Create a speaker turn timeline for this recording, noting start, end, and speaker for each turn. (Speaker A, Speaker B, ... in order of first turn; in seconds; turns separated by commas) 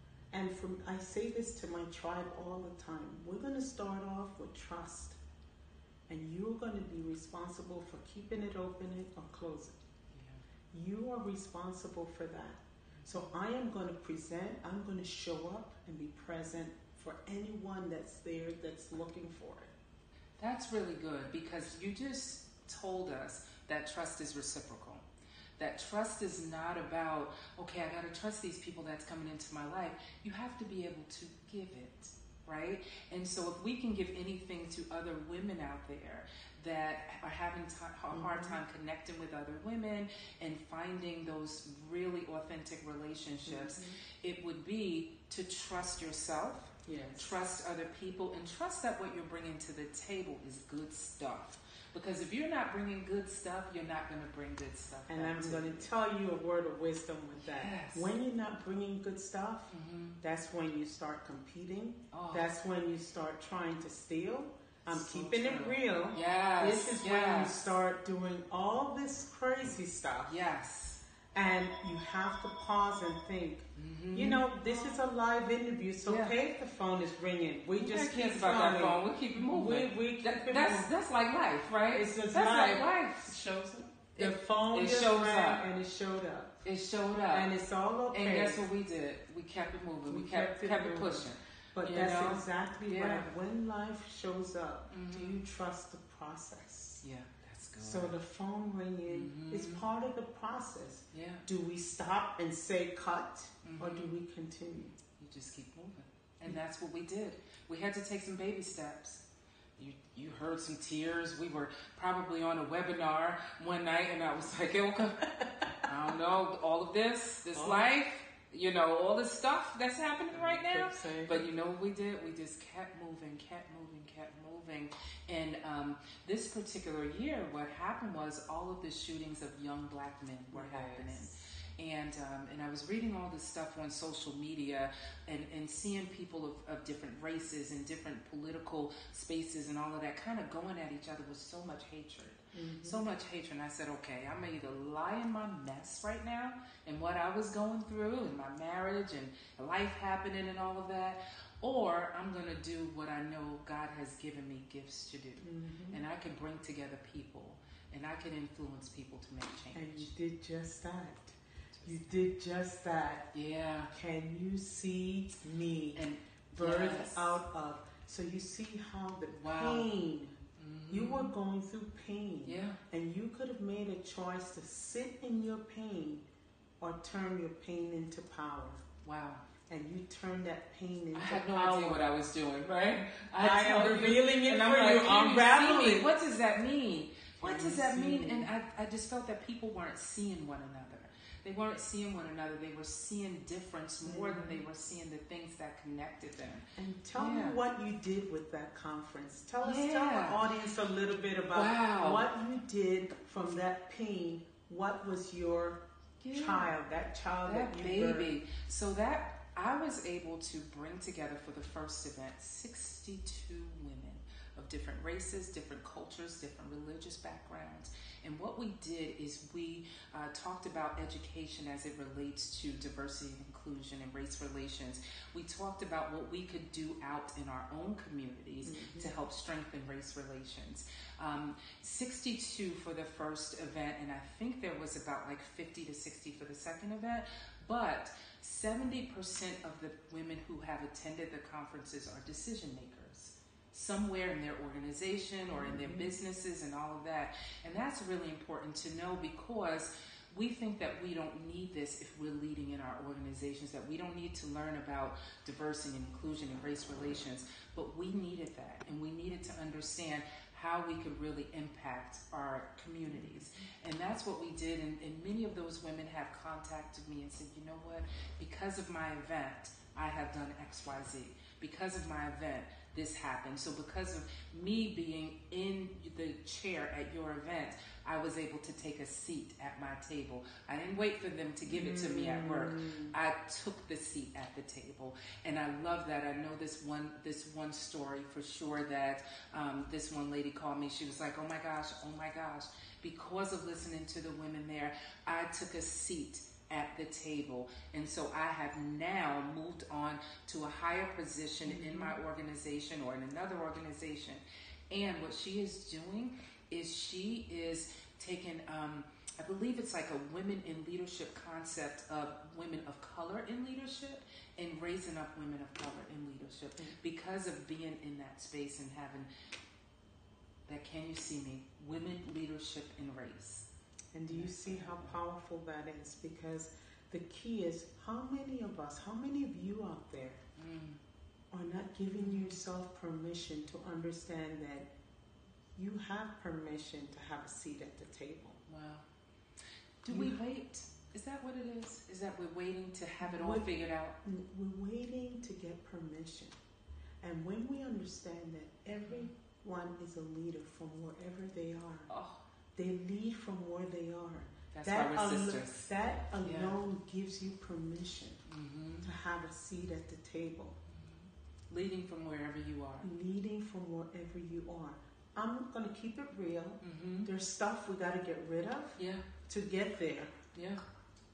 Speaker A: 0.3-5.2, Speaker A: 6.1-9.7, Speaker B: 10.1-10.4, Speaker A: 10.7-19.7, Speaker B: 13.0-13.3, Speaker B: 20.4-25.0, Speaker B: 25.6-55.9, Speaker A: 38.1-38.6, Speaker A: 43.5-44.0, Speaker A: 46.9-47.3, Speaker A: 55.1-70.4, Speaker B: 57.4-58.1, Speaker B: 59.7-60.2, Speaker B: 62.1-62.5, Speaker B: 64.9-67.7, Speaker B: 70.2-71.0, Speaker A: 71.3-80.9, Speaker B: 73.8-74.4, Speaker B: 76.0-76.3, Speaker B: 77.7-83.4, Speaker A: 81.9-86.6, Speaker B: 84.1-85.7, Speaker B: 86.6-87.5, Speaker A: 87.3-88.7, Speaker B: 88.1-93.3, Speaker A: 90.1-97.0, Speaker B: 94.9-95.4, Speaker B: 97.0-98.2, Speaker A: 97.8-104.9, Speaker B: 99.1-99.8, Speaker B: 101.1-101.4, Speaker B: 103.6-104.1, Speaker B: 105.2-109.2, Speaker B: 109.8-115.3, Speaker A: 115.4-115.6, Speaker B: 115.8-160.1, Speaker A: 117.5-117.9, Speaker A: 120.3-121.4, Speaker A: 130.5-131.3, Speaker A: 142.5-143.0, Speaker A: 155.4-156.0, Speaker A: 159.7-163.3, Speaker B: 163.3-163.9, Speaker A: 163.9-170.3, Speaker B: 165.9-167.4, Speaker B: 169.3-169.9, Speaker B: 170.6-171.3, Speaker A: 170.9-176.2, Speaker B: 172.4-172.8, Speaker A: 176.8-178.8, Speaker B: 179.0-179.4, Speaker A: 179.7-182.1, Speaker B: 181.1-196.6, Speaker A: 183.3-186.1, Speaker A: 187.4-188.5, Speaker A: 194.0-194.6, Speaker A: 196.8-208.4, Speaker B: 197.2-197.6, Speaker B: 199.6-200.4, Speaker B: 201.5-202.3, Speaker B: 206.2-206.7, Speaker B: 207.4-319.3, Speaker A: 228.6-229.1, Speaker A: 245.5-246.1, Speaker A: 263.1-263.6, Speaker A: 281.6-283.1, Speaker A: 301.6-302.2, Speaker B: 320.7-323.7, Speaker A: 324.1-330.4, Speaker B: 324.3-325.1, Speaker B: 330.6-331.0, Speaker A: 331.5-334.9, Speaker B: 332.2-332.6, Speaker A: 335.8-338.6, Speaker B: 338.7-339.0, Speaker B: 340.0-344.1, Speaker A: 340.1-340.4, Speaker A: 343.2-346.5, Speaker A: 347.2-352.1, Speaker B: 348.9-349.3, Speaker B: 352.1-352.4, Speaker A: 352.7-358.4, Speaker B: 354.7-355.9, Speaker B: 356.4-356.8, Speaker B: 358.5-359.1, Speaker A: 359.0-360.8, Speaker B: 360.9-363.1, Speaker A: 363.0-370.3, Speaker B: 366.8-367.3, Speaker B: 369.0-369.2, Speaker B: 370.5-370.8